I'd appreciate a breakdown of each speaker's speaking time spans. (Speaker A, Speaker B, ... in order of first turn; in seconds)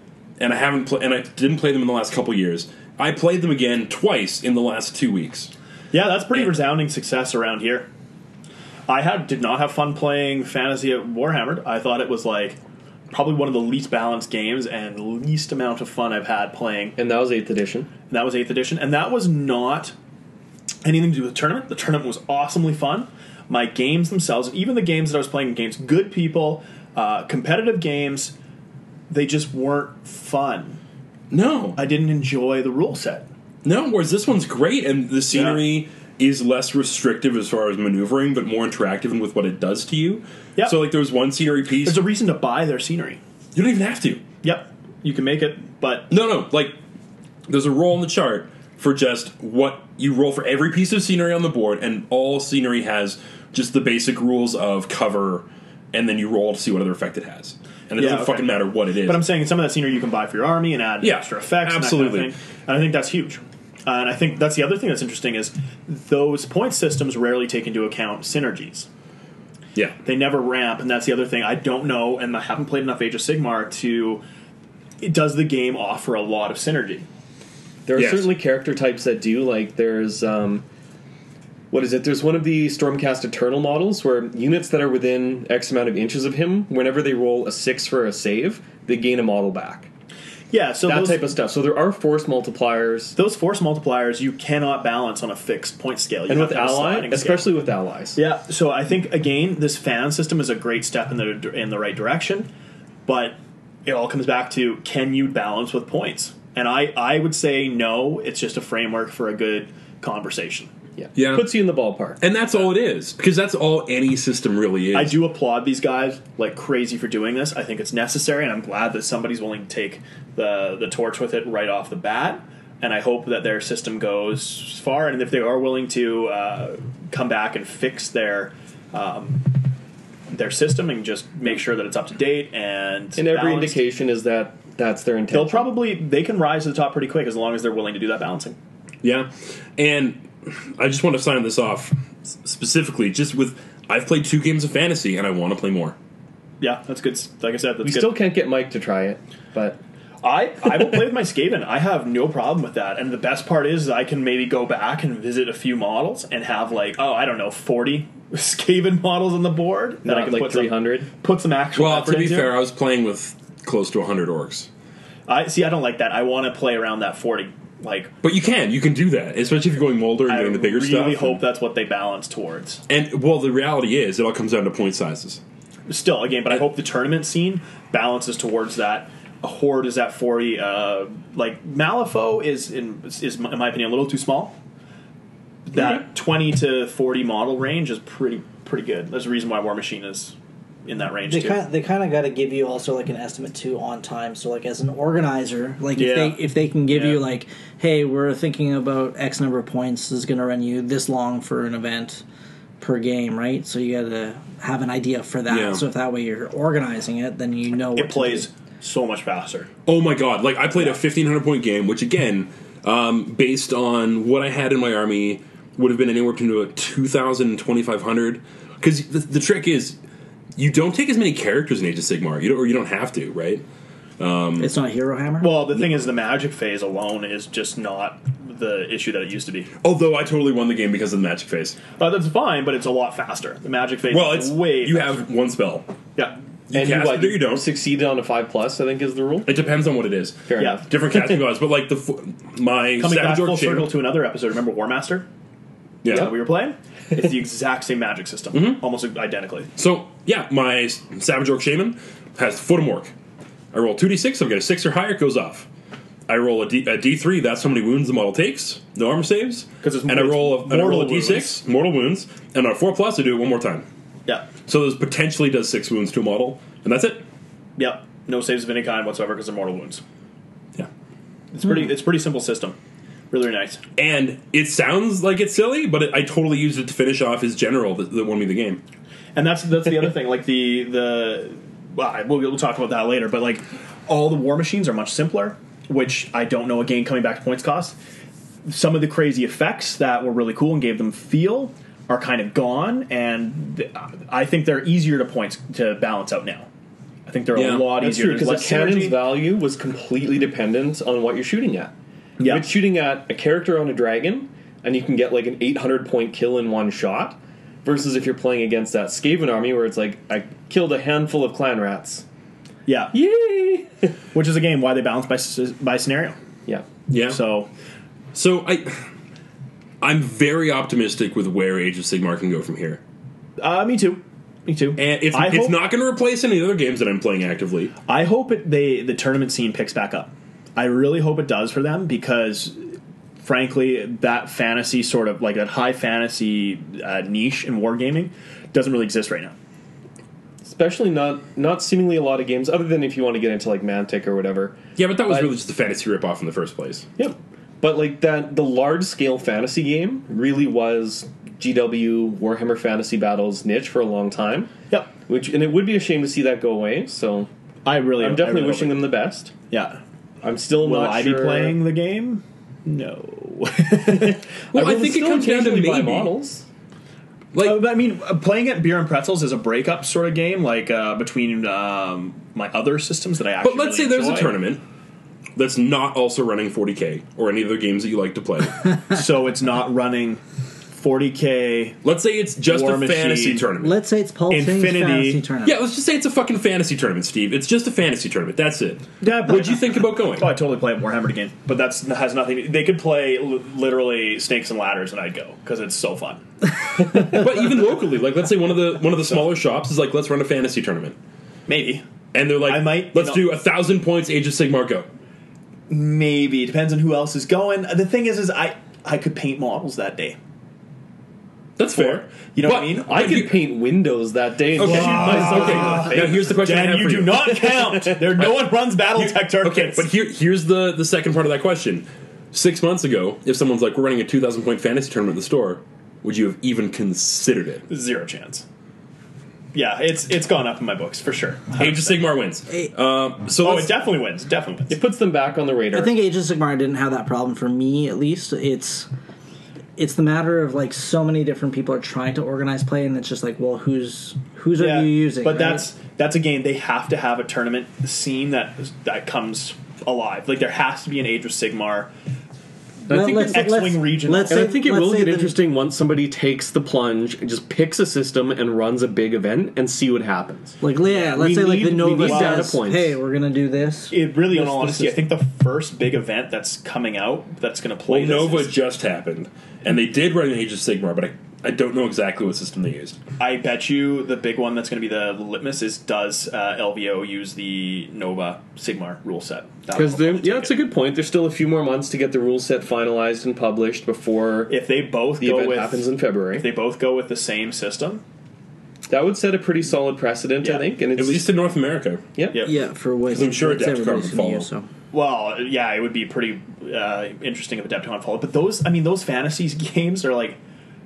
Speaker A: 0.4-5.5, 31.3-31.8, 33.6-42.0, 43.5-44.2, 46.1-46.8, 47.5-59.2, 61.0-62.3, 78.0-78.3, 111.2-111.5, 112.2-115.2, 139.0-146.0, 161.8-164.7, 168.2-171.4, 172.9-175.4, 205.5-205.8, 209.9-220.0, 220.6-223.6, 224.2-224.7, 229.8-231.8, 234.1-235.9, 236.7-237.7, 239.5-243.9, 246.0-246.4, 248.5-248.8, 249.8-253.1, 253.7-255.7, 256.3-263.9, 264.6-267.2, 274.0-278.8, 297.5-298.0, 317.1-317.4, 318.3-319.0, 320.0-323.0, 325.0-327.9, 345.0-347.1, 364.7-366.3, 367.5-367.9, 373.6-374.8, 375.6-378.9, 382.0-384.0, 385.6-390.5, 397.0-401.2, 402.3-405.1, 411.8-413.6, 414.8-427.9, 431.8-433.9, 468.1-473.2, 491.2-492.2, 493.3-494.7
Speaker B: 5.9-7.9, 8.9-12.6, 13.1-17.0, 18.1-19.9, 20.8-28.3, 29.1-30.8, 31.8-33.3, 35.3-35.6, 41.8-43.2, 44.4-46.1, 58.0-68.9, 70.0-74.2, 75.0-77.1, 90.5-91.2, 93.2-97.5, 98.2-102.5, 103.1-110.7, 114.9-129.6, 130.3-133.8, 135.3-138.6, 146.6-148.2, 150.2-162.5, 165.3-168.1, 170.3-172.8, 175.9-184.6, 185.7-191.6, 196.0-197.2, 208.0-209.7, 225.4-229.7, 232.0-235.3, 240.6-240.8, 243.0-245.3, 246.1-249.7, 259.8-261.6, 267.8-270.0, 271.5-272.8, 273.3-273.8, 279.4-288.0, 288.7-296.7, 297.3-299.3, 302.4-302.7, 312.9-313.1, 314.3-316.4, 317.3-317.7, 323.6-325.8, 328.1-339.5, 357.8-359.1, 359.7-360.0, 360.8-364.4, 367.6-374.5, 379.1-382.0, 382.6-383.7, 384.5-385.4, 389.2-396.4, 401.7-402.0, 402.6-403.4, 405.9-410.4, 411.9-413.4, 414.8-420.1, 427.9-428.6, 429.7-432.2, 433.6-435.0, 444.8-452.1, 453.3-454.7, 461.1-461.4, 462.2-462.7, 464.1-468.8, 473.4-480.8, 484.7-488.2, 490.6-490.9, 492.5-492.8, 495.1-500.6
Speaker C: 17.0-17.9, 77.9-80.7, 81.7-89.9, 90.8-93.2, 96.3-98.2, 111.0-112.2, 133.2-135.7, 147.8-149.8, 160.1-161.1, 236.7-239.5, 240.5-240.8, 297.9-312.2, 313.1-314.1, 340.6-345.5, 347.2-354.7, 355.3-357.5, 358.2-359.5, 360.4-361.8, 364.7-366.6, 413.0-416.3, 434.9-436.2, 453.1-460.8, 461.3-463.2, 479.9-484.7, 485.4-486.7, 489.1-491.5, 492.4-492.7
Speaker D: 191.3-202.2, 202.8-208.5, 224.6-225.7, 383.8-385.8, 435.9-439.1, 440.0-445.9, 453.1-455.6, 460.8-465.0, 492.6-494.9